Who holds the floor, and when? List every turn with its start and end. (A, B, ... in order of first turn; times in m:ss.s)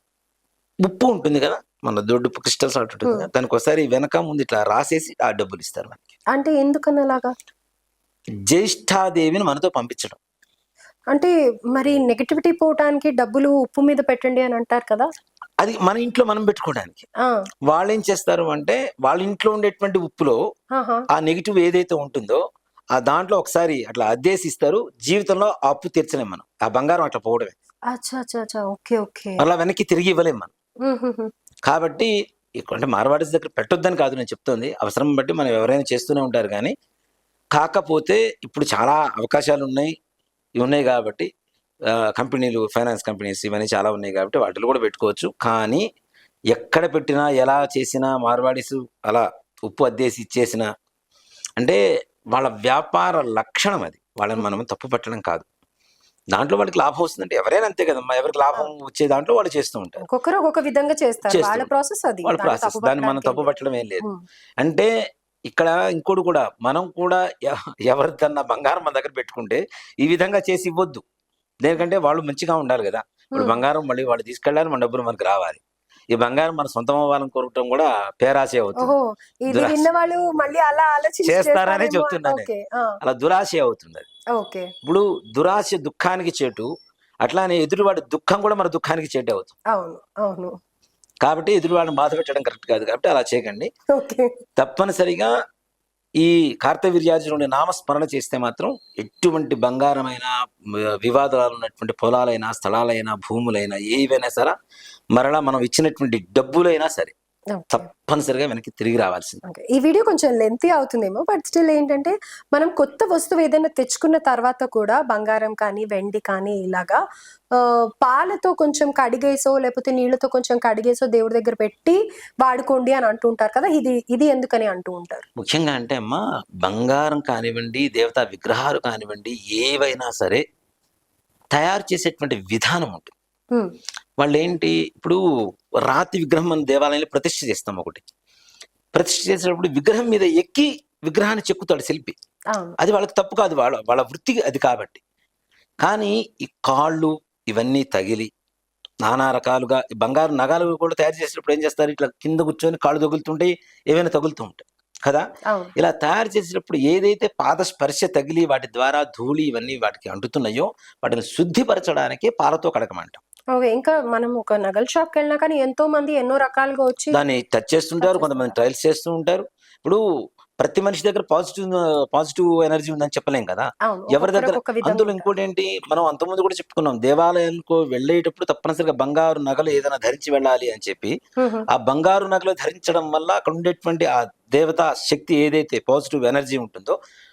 0:00.8-0:06.0 A
0:06.3-0:07.3 B
0:08.5-0:10.2 A
0:11.1-0:15.1 B
0:15.6-0:17.0 A
0:17.7-0:20.4 A
0:20.7-0:21.0 B
0:21.1-0:22.4 A
0:23.0-0:27.5 A
0:27.9-0:29.4 B
0:29.4-0:30.5 A
0:30.8-0:31.3 B
0:31.7-0:36.7 A
0:37.5-0:39.9 A
0:40.6-0:41.3 A
0:41.9-0:45.8 A
0:46.5-0:50.7 A
0:52.3-0:55.5 A
0:56.3-1:00.0 A
1:00.0-1:04.2 B
1:01.3-1:01.7 A
1:02.2-1:04.0 A
1:04.6-1:04.9 A
1:05.5-1:11.0 A
1:11.6-1:15.6 A
1:13.4-1:13.6 B
1:16.1-1:18.9 A
1:18.8-1:23.0 B
1:19.5-1:19.8 A
1:21.2-1:22.5 A
1:23.0-1:24.1 A
1:24.3-1:24.7 B
1:24.8-1:26.7 A
1:27.2-1:29.5 A
1:29.7-1:30.5 B
1:31.2-1:33.7 A
1:33.9-1:34.3 B
1:34.6-1:35.3 A
1:36.2-1:44.5 A
1:45.1-1:47.1 A
1:47.5-1:47.8 B
1:47.7-1:49.4 A
1:49.5-1:57.0 B
1:57.6-2:05.2 B
2:05.4-2:10.4 A
2:11.5-2:13.1 A
2:14.2-2:15.2 A
2:15.9-2:18.0 A
2:18.9-2:22.2 A
2:22.5-2:22.8 B
2:22.8-2:25.0 A
2:25.8-2:28.3 A
2:29.0-2:43.2 A
2:43.5-2:47.2 B
2:47.1-2:50.0 A
2:48.0-2:48.5 B
2:50.6-3:01.2 A
2:53.9-2:55.3 B
3:01.4-3:01.7 B
3:01.7-3:07.0 A